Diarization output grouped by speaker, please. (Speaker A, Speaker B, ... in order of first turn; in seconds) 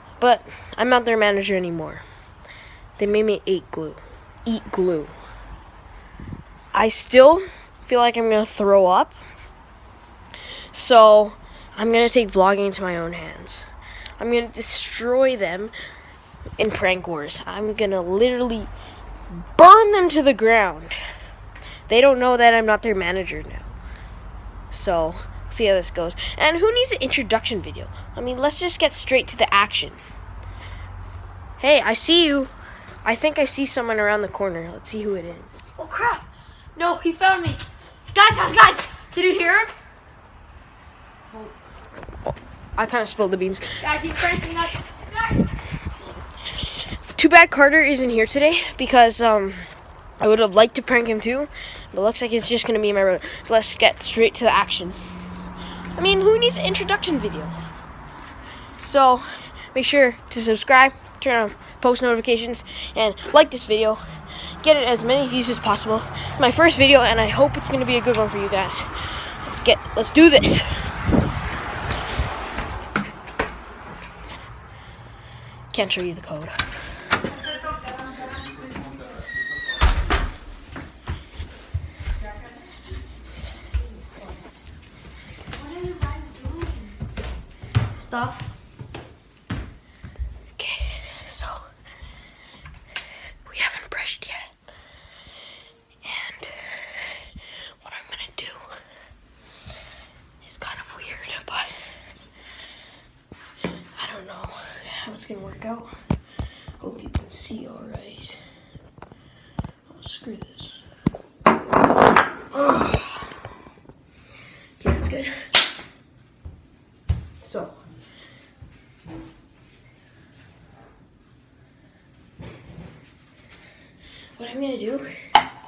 Speaker A: 0.2-2.0, 3.0-5.1, 6.7-9.2, 10.7-13.7, 14.2-15.7, 16.6-18.7, 19.6-20.9, 21.9-23.7, 24.7-30.0, 31.6-32.5, 33.0-35.7, 42.2-43.8, 47.1-55.0, 56.0-57.6, 58.8-64.0, 64.6-70.9, 75.7-76.6, 90.6-91.7, 93.5-94.5, 96.0-97.2, 97.8-98.7, 100.4-101.7, 103.9-105.9, 106.8-108.4, 109.9-110.8, 112.5-113.4, 114.8-115.5, 117.4-117.8, 124.3-125.1
Speaker B: 35.8-39.7, 43.8-45.4, 86.0-86.5, 87.9-88.5